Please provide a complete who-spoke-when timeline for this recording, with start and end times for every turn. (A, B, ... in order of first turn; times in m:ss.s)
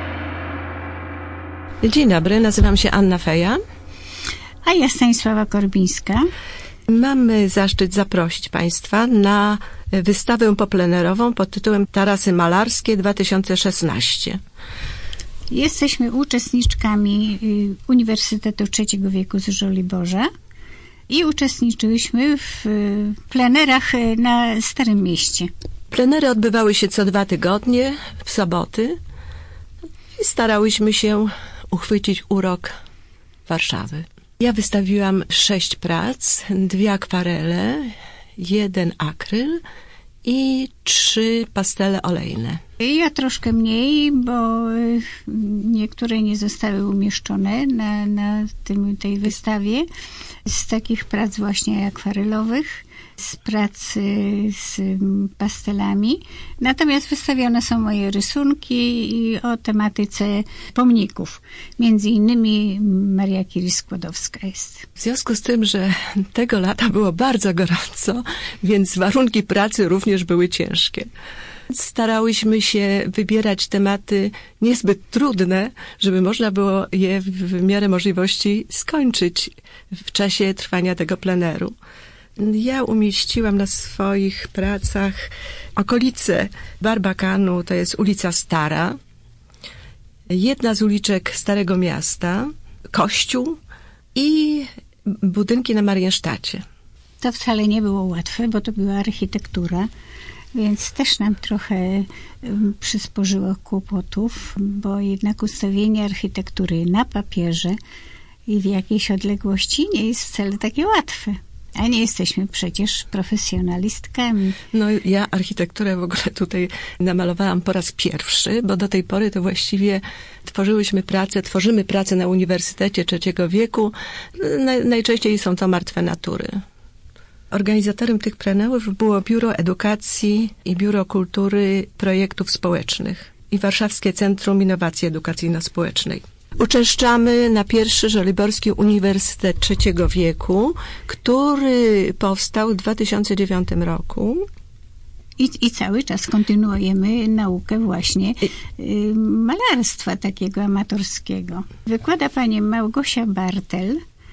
0:01.8-0:03.6 A
0:04.6-0:06.2 B
0:06.9-0:14.4 A
0:15.5-0:20.3 B
0:21.1-0:25.5 B
0:25.9-0:29.0 A
0:30.2-0:32.7 A
0:33.5-0:39.6 A
0:40.2-0:42.6 A
0:42.8-0:49.9 B
0:50.4-1:04.8 B
1:05.0-1:11.1 A
1:11.7-1:19.5 A
1:20.1-1:21.7 A
1:22.4-1:28.9 A
1:30.3-1:33.6 A
1:34.1-1:36.6 A
1:37.2-1:39.9 B
1:40.5-1:47.8 B
1:48.5-1:54.6 B
1:54.7-2:06.6 A
2:07.5-2:24.4 A
2:25.4-2:34.0 B